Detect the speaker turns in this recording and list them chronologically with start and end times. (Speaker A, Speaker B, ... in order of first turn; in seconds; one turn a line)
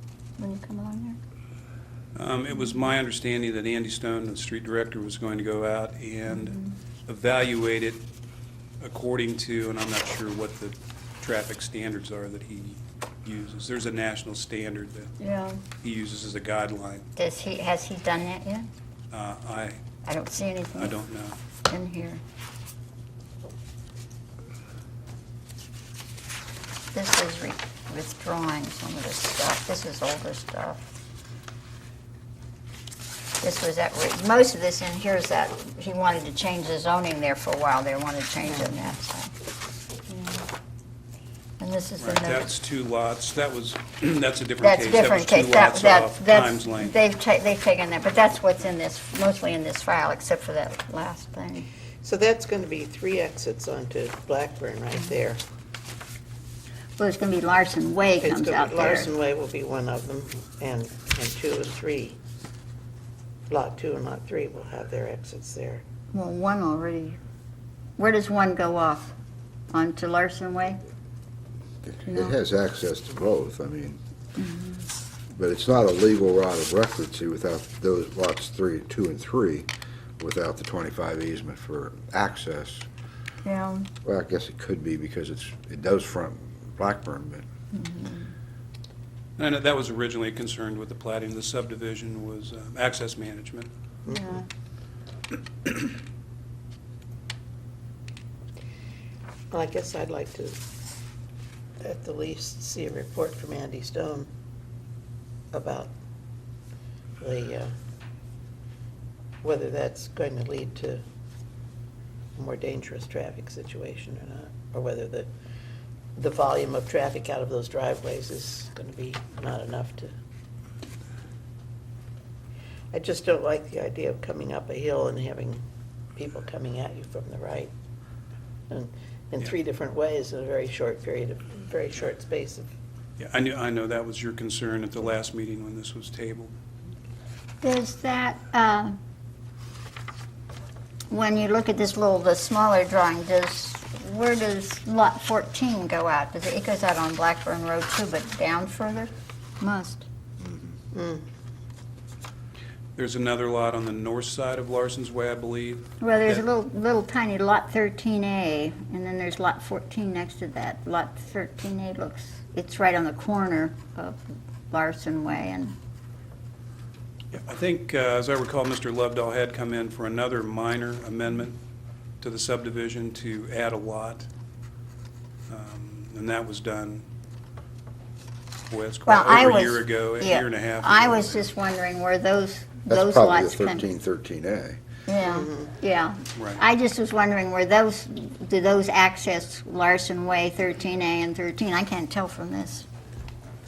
Speaker A: 0.4-1.2
Speaker B: 2.1-8.0
Speaker A: 6.3-6.7
Speaker B: 8.8-15.2
Speaker A: 15.2-15.6
Speaker B: 15.8-17.1
Speaker A: 17.2-18.7
Speaker B: 19.1-19.8
Speaker A: 20.0-21.0
Speaker B: 20.8-21.4
Speaker A: 21.7-22.2
Speaker A: 26.9-30.9
Speaker A: 33.4-39.3
Speaker A: 40.1-40.4
Speaker A: 41.6-42.5
Speaker B: 42.0-46.9
Speaker A: 44.6-51.7
Speaker C: 52.0-55.4
Speaker A: 57.0-59.1
Speaker C: 58.2-62.2
Speaker C: 63.5-65.8
Speaker A: 66.1-67.2
Speaker A: 68.0-69.1
Speaker A: 69.7-70.8
Speaker D: 71.8-74.0
Speaker A: 72.1-72.3
Speaker A: 74.4-74.9
Speaker D: 75.3-79.7
Speaker D: 80.2-82.9
Speaker A: 83.4-83.9
Speaker D: 84.0-87.5
Speaker A: 87.7-88.3
Speaker B: 89.4-93.7
Speaker C: 94.1-94.4
Speaker A: 94.1-94.5
Speaker C: 99.5-100.6
Speaker C: 101.8-104.3
Speaker C: 105.5-105.9
Speaker C: 107.2-107.7
Speaker C: 109.4-111.0
Speaker C: 112.4-115.3
Speaker C: 116.2-120.1
Speaker C: 122.9-125.6
Speaker C: 126.2-127.7
Speaker C: 128.7-132.7
Speaker B: 133.2-136.5
Speaker A: 137.6-138.9
Speaker A: 141.1-150.1
Speaker C: 150.9-151.2
Speaker B: 153.0-156.4
Speaker A: 156.0-165.8
Speaker B: 167.3-171.6
Speaker B: 172.2-174.3
Speaker B: 175.5-177.1
Speaker B: 178.7-181.5
Speaker A: 179.1-183.9
Speaker D: 182.9-184.8
Speaker A: 185.1-192.9
Speaker C: 185.2-185.7
Speaker B: 186.4-186.6